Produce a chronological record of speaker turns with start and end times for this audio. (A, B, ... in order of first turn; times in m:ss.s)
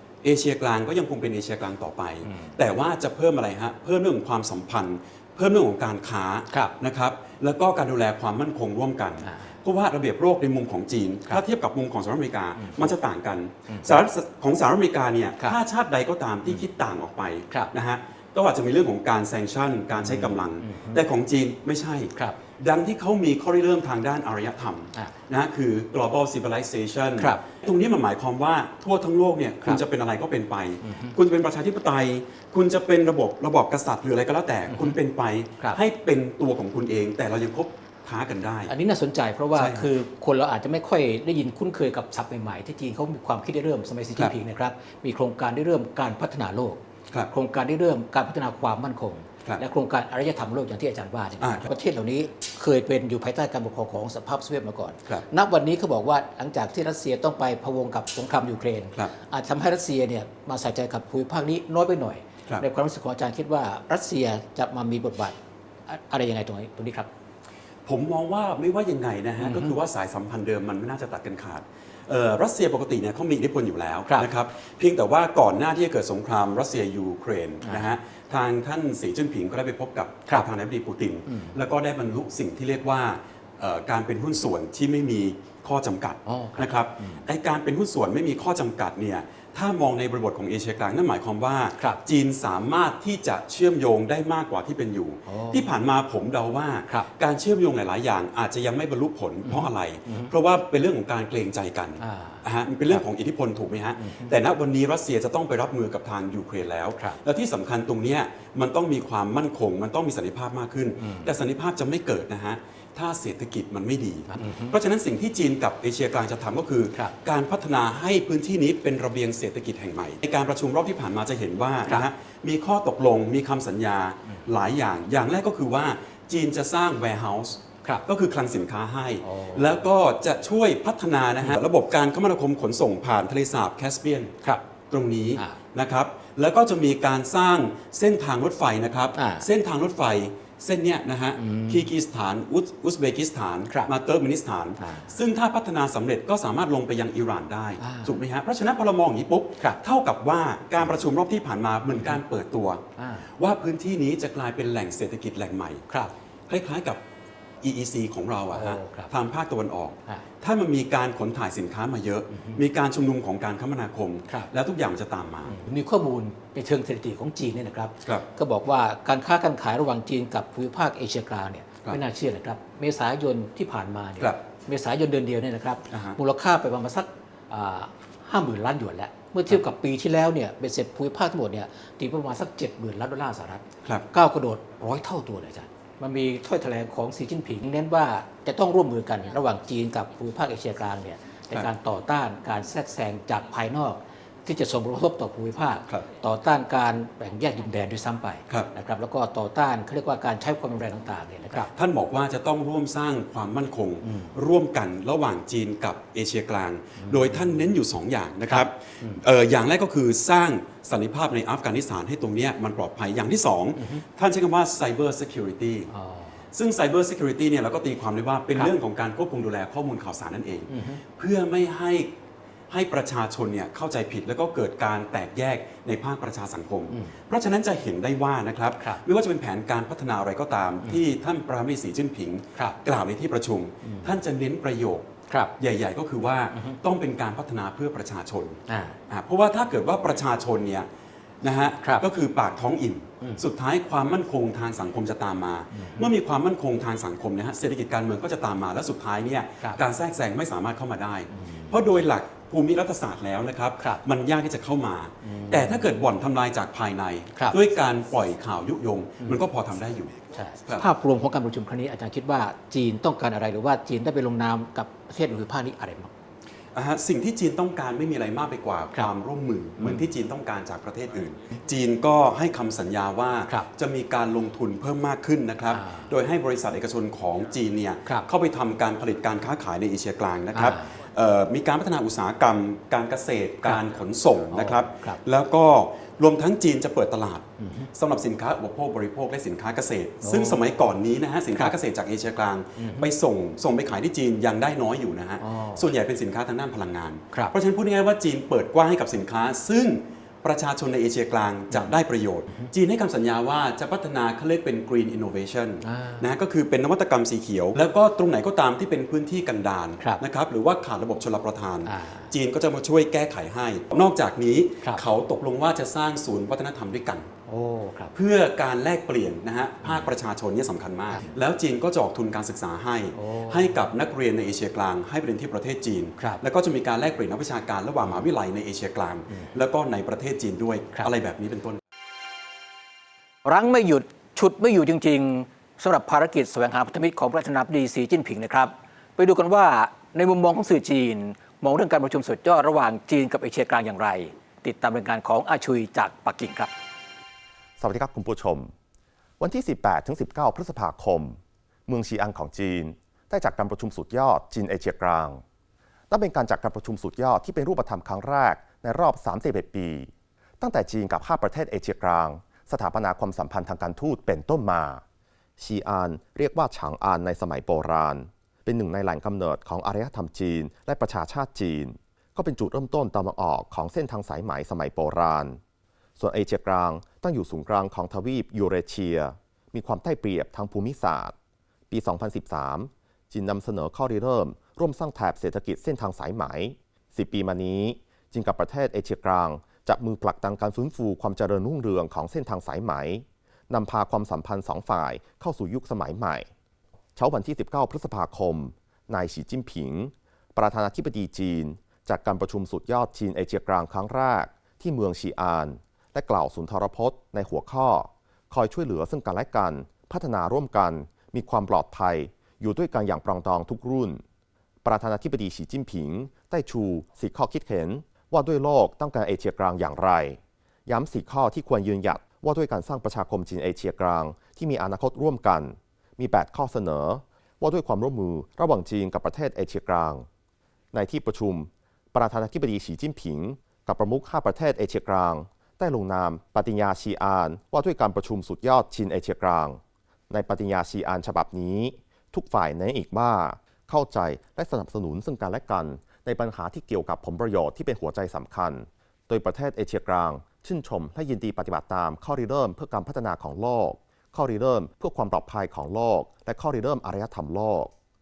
0:00.2-0:38.7 A
0:02.2-0:02.6 B
0:09.2-0:09.6 B
0:12.6-0:12.9 B
0:13.7-0:14.0 B
0:20.0-0:21.0 B
0:27.2-0:27.4 B
0:30.8-0:31.2 B
0:34.7-0:35.0 B
0:38.7-1:07.1 B
0:39.5-0:39.9 A
0:51.4-0:51.7 A
1:07.9-2:14.3 A
1:09.4-1:09.7 B
1:17.6-1:17.9 B
1:21.3-1:21.6 B
1:26.2-1:27.3 B
1:35.3-1:35.7 B
1:39.4-1:40.3 B
1:42.0-1:43.0 B
1:44.0-1:44.3 B
1:51.0-1:51.3 B
1:54.3-1:54.8 B
2:09.2-2:09.8 B
2:14.9-2:32.8 A
2:19.2-2:19.5 B
2:21.4-2:21.9 B
2:24.8-2:25.2 B
2:27.8-2:28.2 B
2:33.0-2:33.3 B
2:33.4-2:35.8 A
2:35.9-2:36.1 B
2:36.5-2:37.0 A
2:37.6-2:45.6 A
2:38.5-2:39.1 B
2:42.3-2:42.6 B
2:45.4-3:21.7 B
2:55.9-2:56.2 A
3:21.7-3:35.9 A
3:24.0-3:24.3 B
3:27.0-3:27.4 B
3:28.5-3:29.2 B
3:33.8-3:34.0 B
3:35.9-3:36.4 B
3:36.5-3:42.1 A
3:40.7-3:41.0 B
3:42.7-4:00.9 A
3:46.9-3:47.2 B
3:53.8-3:54.2 B
3:56.5-3:56.8 B
3:58.7-3:59.0 B
4:01.4-4:20.8 A
4:01.8-4:02.1 B
4:05.7-4:06.1 B
4:11.3-4:11.8 B
4:13.8-4:14.0 B
4:15.2-4:15.9 B
4:20.3-4:26.1 B
4:26.7-5:17.3 A
4:35.7-4:36.1 B
4:40.5-4:41.0 B
4:43.6-4:43.9 B
4:44.5-4:45.2 B
4:47.6-4:47.9 B
4:50.2-4:50.6 B
4:52.8-4:53.1 B
4:55.4-4:55.9 B
5:01.7-5:02.0 B
5:05.8-5:06.3 B
5:11.8-5:12.3 B
5:17.5-5:18.1 B
5:18.1-5:31.8 A
5:21.1-5:21.4 B
5:23.1-5:23.8 B
5:33.4-5:46.7 B
5:47.8-5:48.7 C
5:49.4-5:55.4 C
5:56.1-6:05.0 C
6:05.6-6:15.6 C
6:16.2-6:21.4 C
6:21.9-6:36.5 C
6:37.2-6:54.2 C
6:54.8-7:10.3 C
7:10.9-7:37.9 C